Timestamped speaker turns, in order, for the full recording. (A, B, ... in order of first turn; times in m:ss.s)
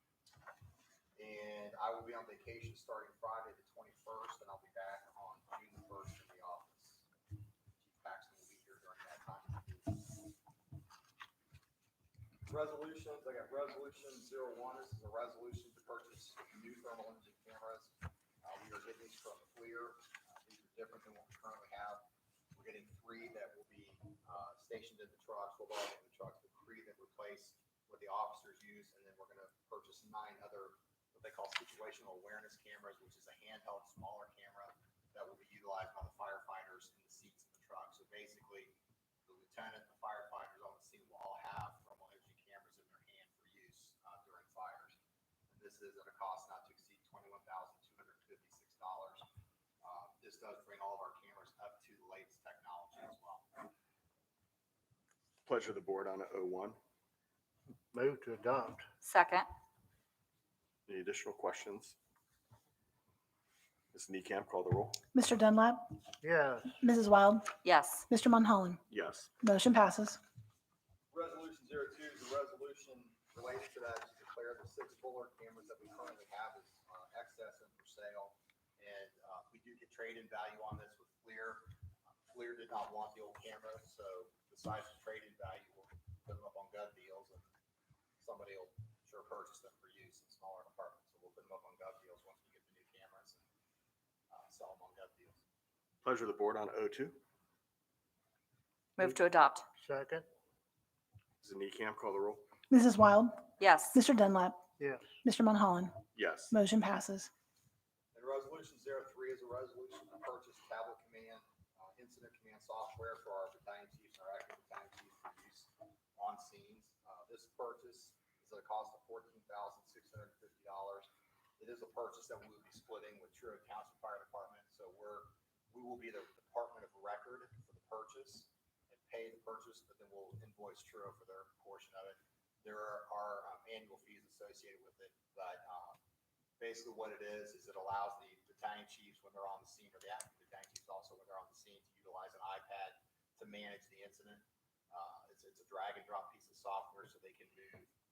0:01.2-0:07.1 A
0:07.8-0:10.3 A
0:12.5-0:38.8 A
0:39.3-0:45.0 A
0:45.5-0:49.2 A
0:49.8-0:53.6 A
0:55.5-0:56.8 B
0:57.9-0:58.8 C
0:59.0-0:59.5 D
1:00.9-1:02.0 B
1:03.9-1:05.0 B
1:05.1-1:06.0 E
1:06.2-1:06.8 C
1:06.8-1:07.6 E
1:07.6-1:08.1 D
1:08.1-1:08.8 E
1:08.9-1:09.3 B
1:09.4-1:10.2 E
1:11.1-1:21.7 A
1:22.3-1:27.5 A
1:28.2-1:33.4 A
1:34.3-1:35.4 A
1:36.0-1:37.2 B
1:39.0-1:39.6 D
1:39.8-1:40.3 C
1:41.4-1:42.4 B
1:42.7-1:44.6 E
1:43.6-1:44.0 D
1:44.8-1:45.0 C
1:45.2-1:47.3 E
1:46.2-1:46.5 B
1:48.1-2:16.0 A
2:16.6-2:27.9 A